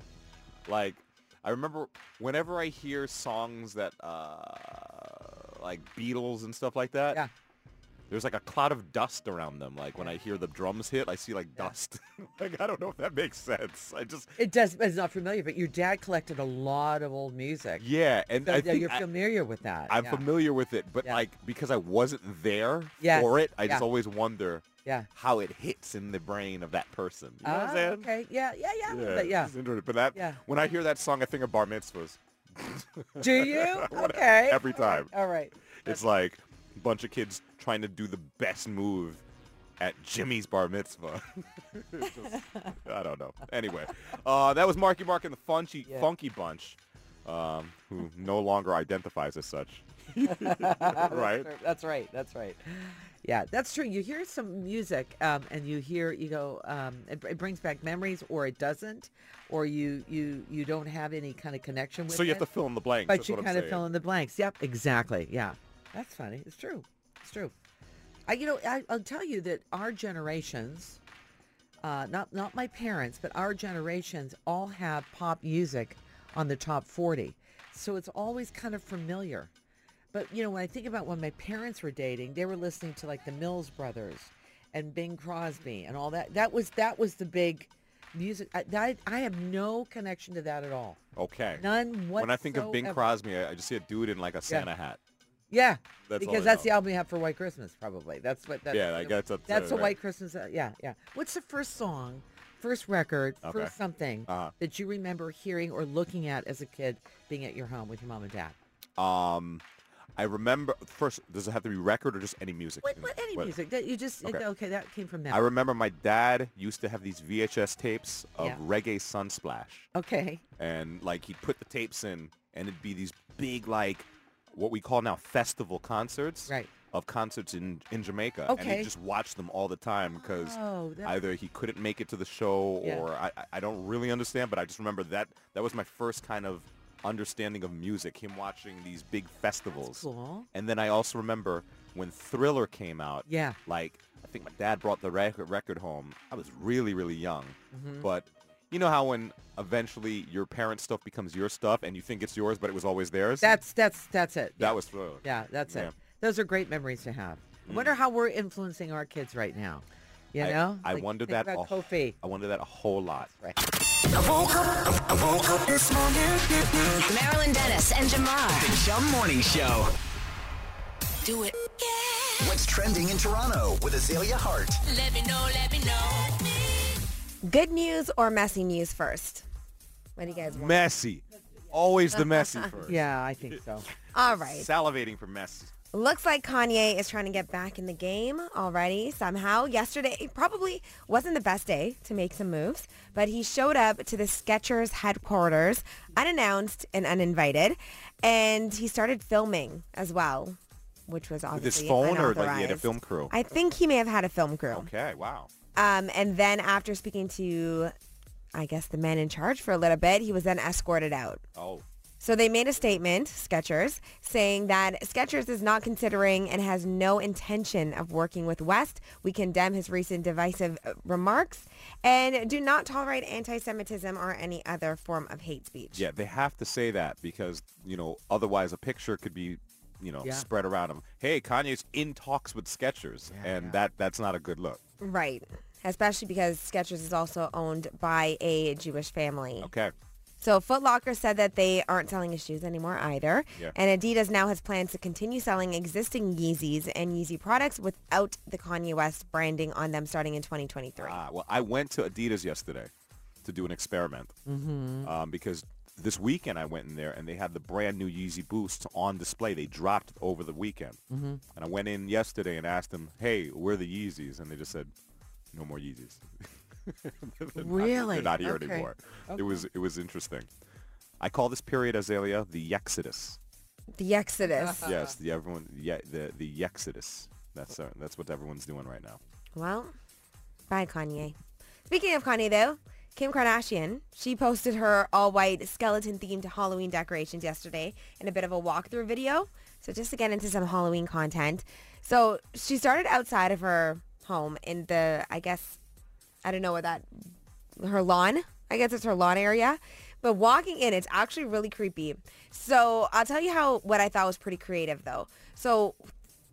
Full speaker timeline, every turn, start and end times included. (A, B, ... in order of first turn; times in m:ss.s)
0:00.7-0:07.2 A
0:08.1-0:14.4 A
0:14.4-0:17.8 B
0:17.8-0:19.1 A
0:18.4-0:20.3 B
0:19.9-0:28.1 A
0:23.0-0:23.8 B
0:27.4-0:29.5 B
0:28.9-0:35.1 A
0:30.1-0:30.4 B
0:33.2-0:36.0 B
0:35.8-0:39.2 A
0:39.8-0:51.5 A
0:42.4-0:42.6 B
0:50.2-1:02.5 B
1:02.1-1:03.8 A
1:03.1-1:07.5 B
1:08.3-1:11.0 B
1:11.8-1:19.5 B
1:20.1-1:31.0 B
1:31.2-1:35.0 A
1:31.6-1:33.0 B
1:35.5-1:48.6 B
1:36.1-1:36.7 A
1:38.7-1:40.0 A
1:43.4-1:43.8 A
1:44.3-1:44.5 A
1:49.0-1:49.6 A
1:50.2-1:53.5 A
1:52.8-1:55.5 B
1:55.3-1:59.9 A
2:00.0-2:00.4 B
2:00.6-2:33.6 A
2:08.5-2:08.9 B
2:10.1-2:11.2 B
2:19.8-2:20.5 B
2:23.3-2:23.6 B
2:27.7-2:28.1 B
2:33.4-2:42.2 B
2:34.6-2:35.9 A
2:37.6-2:38.0 A
2:40.4-2:43.3 A
2:44.1-2:46.5 C
2:46.9-2:48.8 D
2:48.5-2:49.9 C
2:51.2-2:52.4 D
2:52.4-2:54.8 C
2:54.9-2:56.5 D
2:57.4-2:59.5 E
3:00.2-3:00.8 E
3:00.5-3:03.6 A
3:02.8-3:03.9 B
3:04.1-3:04.7 E
3:04.2-3:05.7 A
3:05.9-3:24.9 E
3:21.5-3:23.3 A
3:24.7-3:25.5 A
3:25.8-3:27.9 E
3:28.5-3:31.4 E
3:31.6-3:31.8 A
3:32.2-3:46.0 E
3:45.9-3:54.8 A
3:53.3-3:53.8 B
3:55.0-3:59.7 E
3:59.6-3:59.9 A
4:00.4-4:11.2 E
4:11.0-4:12.9 A
4:13.4-4:14.4 A
4:14.5-4:15.1 B
4:15.0-4:21.0 A
4:21.1-4:21.4 B
4:21.5-4:24.9 A
4:25.5-4:30.5 A
4:27.5-4:29.7 B
4:31.2-4:33.4 A
4:34.0-4:34.9 E
4:34.6-4:34.9 B
4:34.8-4:39.2 A
4:39.6-4:39.9 E
4:40.7-4:41.4 E
4:41.9-4:55.8 E
4:56.4-4:57.1 E
4:57.8-5:06.0 E